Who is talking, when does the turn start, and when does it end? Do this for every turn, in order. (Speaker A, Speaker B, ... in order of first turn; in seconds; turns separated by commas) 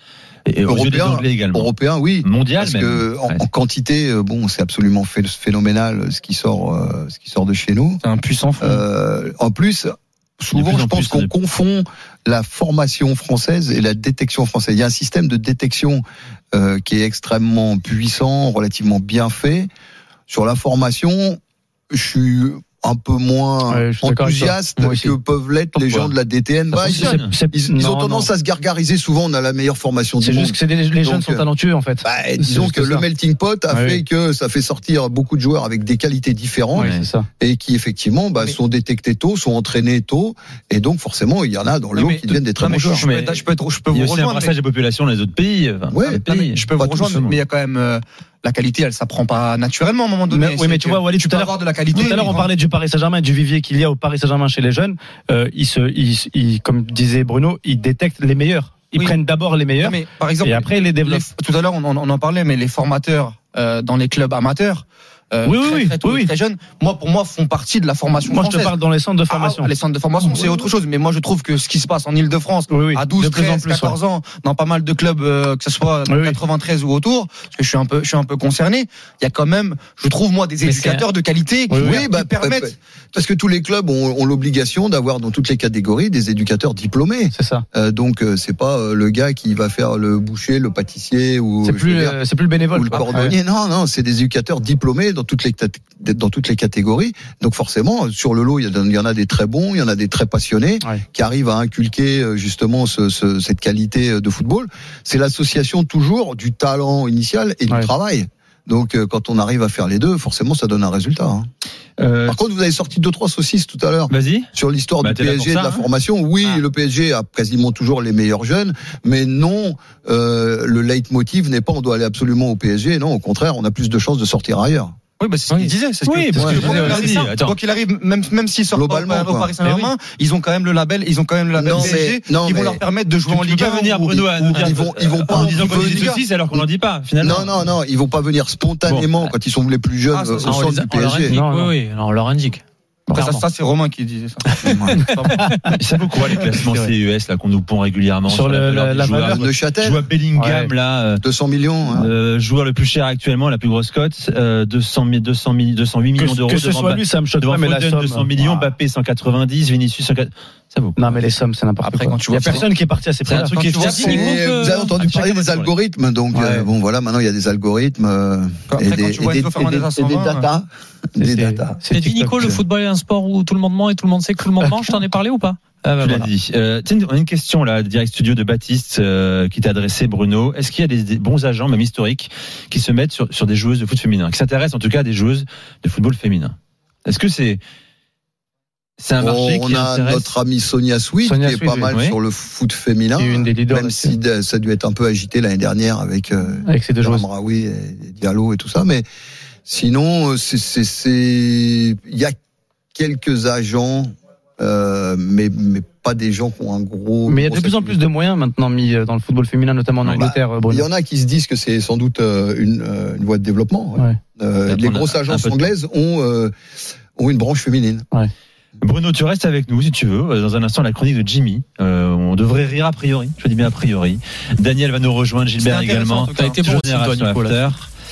Speaker A: 0.5-3.4, Speaker B: 0.7-8.0, Speaker C: 8.0-8.8, Speaker B: 8.6-19.7, Speaker A: 10.5-11.3, Speaker B: 20.3-21.4, Speaker B: 21.9-31.4, Speaker D: 23.7-25.2, Speaker D: 25.7-26.1, Speaker D: 26.7-28.3, Speaker A: 26.9-27.3, Speaker D: 30.2-33.0, Speaker B: 32.0-43.1, Speaker D: 33.7-34.0, Speaker D: 36.7-37.2, Speaker A: 36.8-37.0, Speaker C: 41.9-44.5, Speaker A: 42.9-47.4, Speaker B: 45.9-46.2, Speaker C: 46.1-52.5, Speaker D: 50.3-61.2, Speaker C: 59.8-68.7, Speaker D: 65.4-66.3, Speaker D: 68.2-69.7, Speaker C: 69.3-82.7, Speaker D: 70.2-70.7, Speaker D: 72.7-74.0, Speaker D: 76.1-76.4, Speaker E: 80.6-81.0, Speaker D: 81.7-82.1, Speaker B: 81.8-92.2, Speaker D: 87.3-87.6, Speaker D: 91.6-93.4, Speaker B: 92.7-111.5, Speaker A: 112.0-112.4, Speaker B: 112.2-124.9, Speaker A: 114.1-114.5, Speaker A: 115.0-115.8, Speaker C: 125.2-134.7, Speaker A: 125.5-127.6, Speaker E: 126.0-127.3, Speaker B: 126.4-126.7, Speaker B: 128.7-129.5, Speaker E: 129.6-129.9, Speaker B: 131.6-132.8, Speaker A: 133.2-137.6, Speaker B: 134.3-136.6, Speaker C: 135.4-136.2, Speaker B: 137.2-141.4, Speaker C: 140.1-140.5, Speaker E: 140.4-143.4, Speaker D: 141.3-141.7, Speaker C: 143.1-145.4, Speaker E: 144.5-145.7, Speaker B: 144.6-145.0, Speaker A: 145.8-151.2, Speaker D: 148.3-149.4, Speaker B: 149.3-150.1, Speaker D: 150.3-150.7, Speaker B: 151.1-152.1, Speaker A: 151.8-161.2, Speaker D: 156.2-158.7, Speaker D: 161.0-163.5, Speaker C: 161.8-162.6, Speaker A: 163.2-165.7, Speaker C: 163.3-164.3, Speaker E: 163.7-164.9, Speaker B: 163.9-171.8, Speaker D: 166.3-166.7, Speaker C: 168.7-170.5, Speaker D: 171.2-172.6, Speaker E: 171.9-176.3, Speaker A: 176.0-187.6, Speaker A: 189.0-190.3, Speaker B: 189.2-199.0, Speaker D: 191.2-191.9, Speaker A: 191.9-192.2, Speaker D: 193.2-194.2, Speaker D: 196.6-197.2, Speaker B: 199.7-202.3, Speaker B: 202.9-208.1, Speaker D: 207.3-210.9, Speaker B: 210.0-216.5, Speaker A: 214.7-215.7, Speaker B: 217.2-218.1, Speaker A: 218.8-227.9, Speaker C: 225.6-226.5, Speaker E: 226.3-227.7